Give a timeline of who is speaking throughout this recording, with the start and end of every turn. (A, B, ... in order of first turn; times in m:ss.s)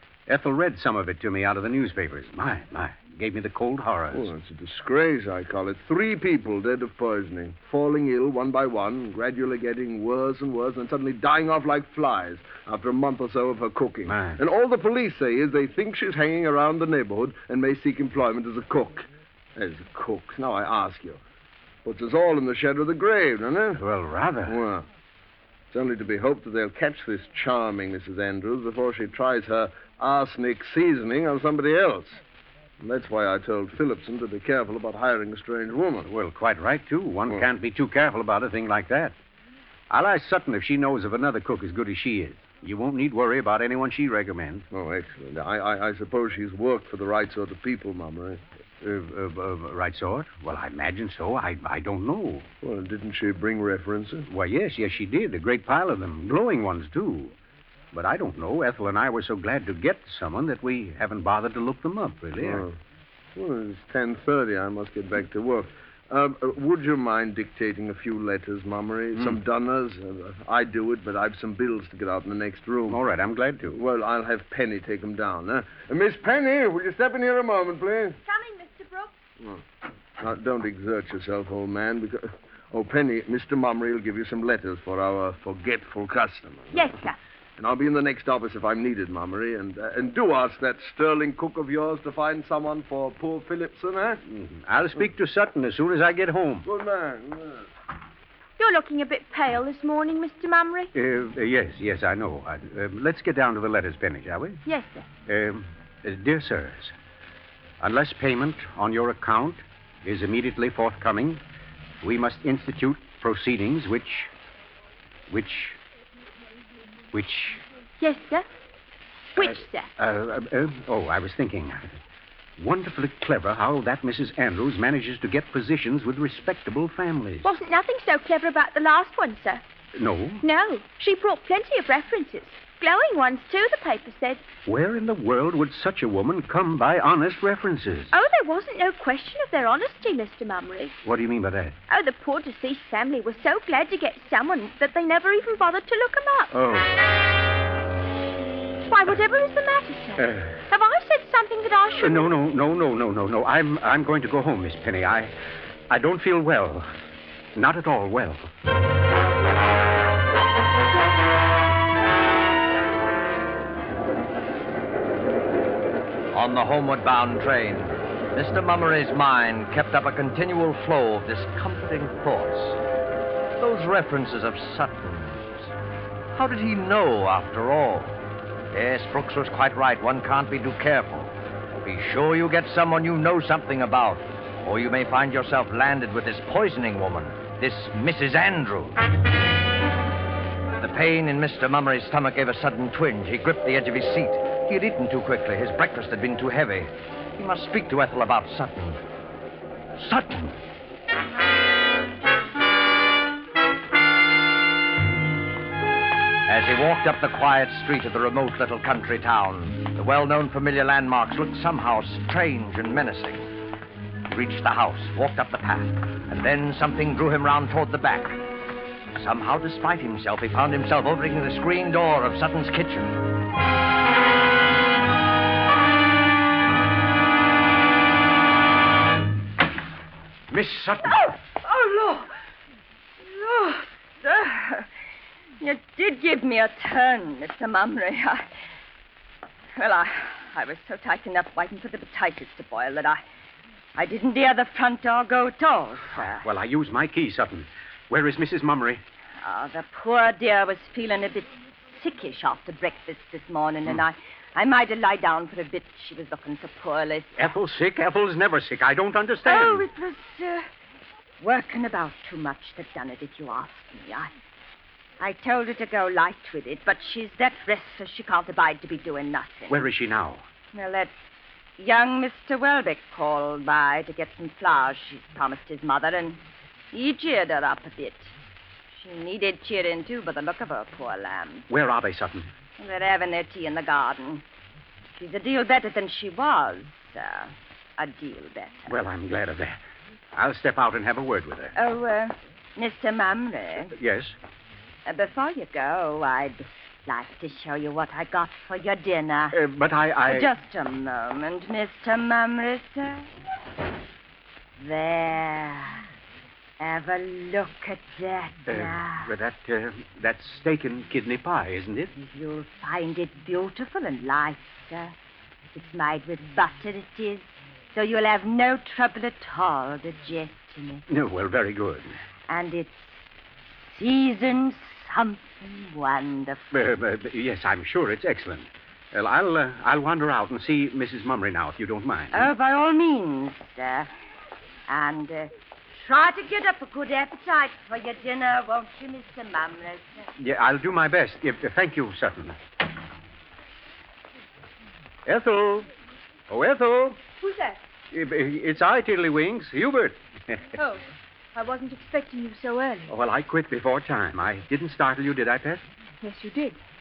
0:00.3-0:04.3 A
0:04.1-0:21.2 B
0:14.0-0:14.4 A
0:21.8-0:23.8 B
0:23.8-0:24.6 A
0:24.4-0:24.9 B
0:25.7-0:32.2 B
0:32.8-0:36.1 B
0:36.0-0:39.2 A
0:39.9-0:44.6 A
0:44.7-0:48.4 B
0:48.8-0:52.5 A
0:52.6-0:54.2 B
0:54.2-0:57.4 A
0:57.9-1:02.6 A
1:02.4-1:02.8 B
1:03.4-1:13.0 B
1:12.9-1:13.8 A
1:13.7-1:18.2 B
1:18.2-1:19.1 C
1:20.2-1:26.9 B
1:26.7-1:27.2 C
1:27.6-1:34.2 B
1:34.2-1:36.7 A
1:36.6-1:37.7 B
1:38.6-1:40.9 C
1:40.9-1:44.6 A
1:44.6-1:45.1 C
1:45.3-1:46.9 A
1:47.8-1:51.4 A
1:52.0-1:54.3 A
1:55.3-1:55.8 A
1:57.1-1:57.6 A
1:58.0-1:58.4 C
1:59.3-1:59.9 C
1:59.4-2:02.0 A
2:02.6-2:07.5 A
2:07.4-2:09.6 C
2:09.9-2:10.4 A
2:10.4-2:14.4 C
2:14.6-2:18.1 A
2:18.1-2:21.0 C
2:21.0-2:21.8 A
2:21.9-2:26.5 C
2:26.5-2:26.9 A
2:28.9-2:32.3 C
2:30.2-2:30.6 A
2:32.0-2:35.3 A
2:35.9-2:36.9 A
2:37.5-2:38.5 A
2:46.3-2:52.8 D
2:53.6-2:55.7 D
2:56.3-2:58.2 D
2:58.7-3:09.0 D
3:10.8-3:19.0 D
3:20.0-3:20.6 D
3:26.5-3:33.5 D
3:34.3-3:38.4 D
3:39.2-3:43.2 D
3:50.5-3:51.4 A
3:51.6-3:52.3 E
3:53.2-3:54.9 E
3:55.6-3:58.4 E
3:59.8-4:03.2 E
4:04.0-4:06.4 E
4:06.1-4:09.0 A
4:09.4-4:17.4 E
4:17.4-4:19.8 A
4:19.4-4:20.7 E
4:21.4-4:24.3 E
4:25.2-4:29.9 E
4:29.7-4:30.4 A
4:30.7-4:31.1 E
4:31.8-4:38.3 E
4:38.9-4:41.7 E
4:41.7-4:42.5 A
4:42.8-4:44.4 E
4:45.1-4:48.9 E
4:48.9-4:49.8 A
4:50.3-4:51.7 A
4:51.7-4:53.9 E
4:53.9-4:54.4 A
4:55.0-4:59.6 E
4:59.5-5:00.5 A
5:00.2-5:03.3 E
5:04.8-5:06.0 E
5:06.8-5:09.3 E
5:08.7-5:12.1 A
5:12.2-5:15.1 E
5:15.7-5:21.0 E
5:21.1-5:22.1 A
5:22.5-5:26.7 E
5:26.7-5:32.5 A
5:32.3-5:34.1 E
5:34.9-5:40.3 E
5:40.4-5:42.6 A
5:45.2-5:45.9 A
5:46.5-5:47.2 A
5:47.4-5:47.8 C
5:48.1-5:50.7 A
5:50.8-5:53.1 C
5:53.1-5:55.8 A
5:56.2-5:56.8 C